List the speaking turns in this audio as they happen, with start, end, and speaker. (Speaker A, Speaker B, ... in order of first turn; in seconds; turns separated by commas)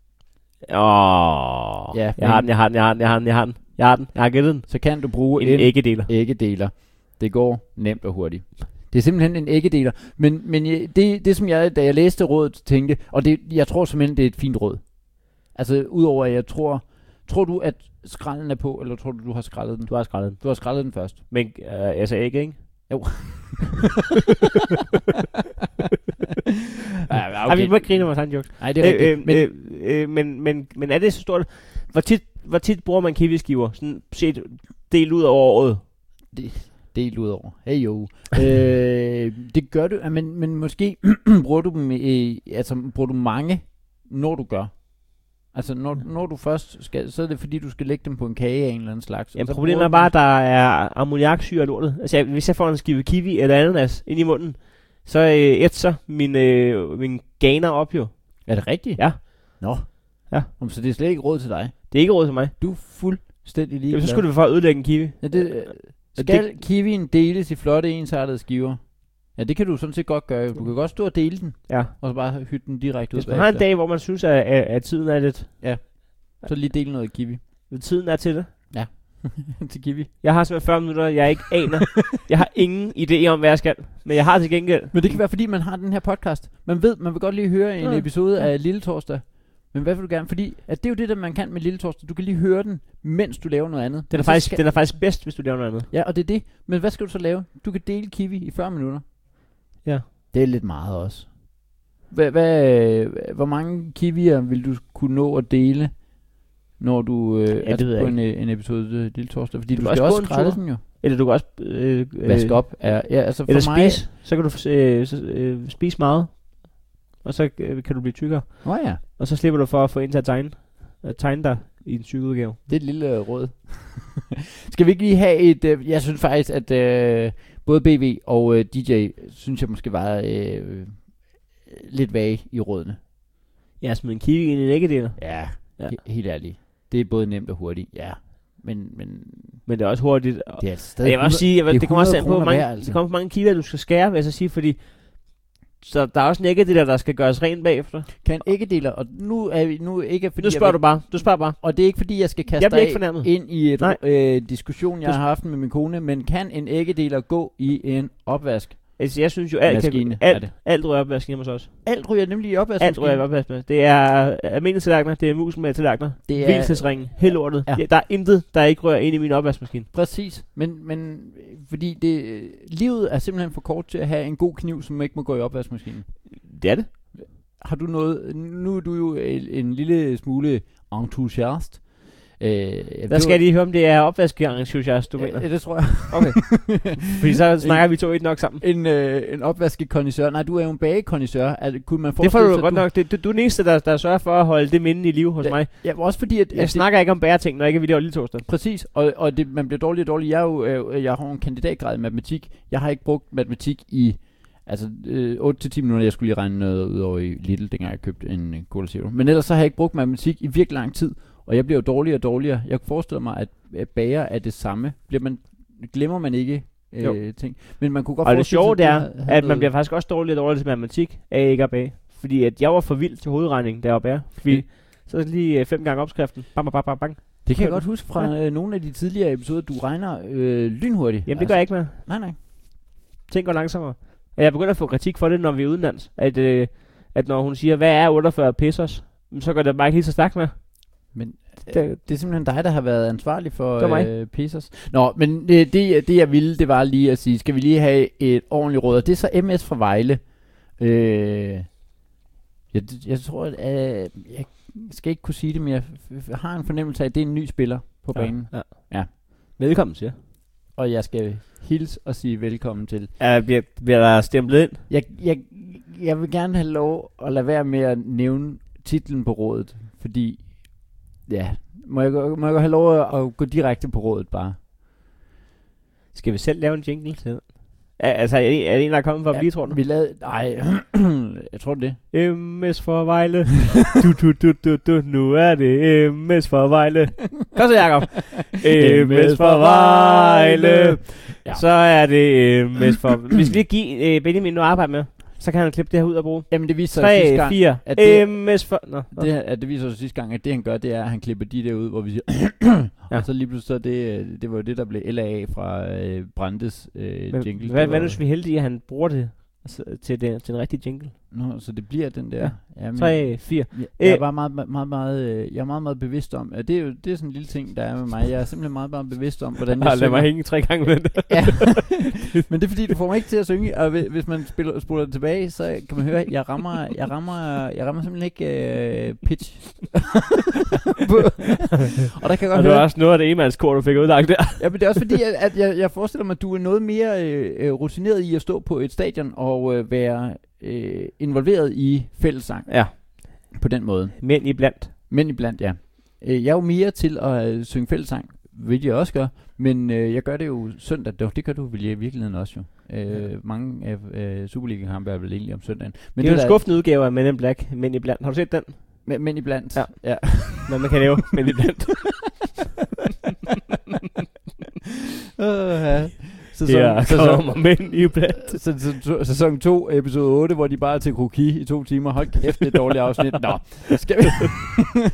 Speaker A: 0.7-6.1, Speaker B: 1.9-2.5, Speaker B: 4.7-21.2, Speaker A: 19.9-23.1, Speaker B: 22.9-23.8, Speaker B: 27.1-29.5, Speaker A: 27.4-35.9, Speaker B: 36.3-50.1, Speaker A: 49.4-60.5, Speaker B: 58.5-73.7, Speaker A: 61.9-62.5, Speaker A: 63.9-66.5, Speaker A: 71.7-71.9, Speaker A: 73.1-76.7, Speaker B: 75.6-77.4, Speaker A: 77.7-78.5, Speaker B: 78.7-80.1, Speaker A: 80.2-85.2, Speaker B: 84.9-99.0, Speaker A: 87.8-88.4, Speaker A: 94.1-95.9, Speaker B: 100.3-110.8, Speaker A: 107.6-108.2, Speaker A: 109.7-122.6, Speaker B: 112.2-114.0, Speaker B: 118.6-119.0, Speaker B: 122.7-133.0, Speaker A: 133.8-136.0, Speaker B: 135.2-139.7, Speaker A: 139.7-148.2, Speaker B: 140.6-143.0, Speaker B: 148.2-160.5, Speaker A: 150.4-155.2, Speaker A: 159.0-162.0, Speaker B: 161.8-163.2, Speaker A: 162.8-169.9, Speaker B: 166.3-167.9, Speaker B: 169.9-176.5, Speaker A: 176.3-176.9, Speaker B: 177.1-183.4, Speaker A: 183.1-188.6, Speaker B: 185.2-186.9, Speaker B: 187.6-192.9, Speaker A: 192.2-198.5, Speaker B: 195.4-196.9, Speaker B: 198.5-219.7, Speaker A: 217.0-228.3, Speaker B: 227.4-232.4, Speaker A: 231.3-241.1, Speaker B: 241.1-251.8, Speaker A: 241.7-242.0, Speaker A: 243.8-244.1, Speaker B: 252.7-259.1, Speaker A: 258.1-260.2, Speaker B: 260.7-263.1, Speaker A: 263.2-264.8, Speaker B: 264.9-274.6, Speaker A: 276.1-279.8, Speaker B: 279.3-282.0, Speaker A: 282.1-299.3, Speaker B: 288.7-291.7, Speaker B: 296.5-308.2, Speaker A: 307.3-311.3, Speaker B: 311.3-332.9, Speaker A: 312.4-314.2, Speaker A: 319.8-322.0, Speaker A: 332.5-335.1, Speaker B: 334.6-356.6, Speaker A: 342.7-343.5, Speaker A: 344.2-344.9, Speaker A: 356.2-362.5, Speaker B: 359.1-361.0, Speaker B: 365.4-375.0, Speaker A: 366.7-368.6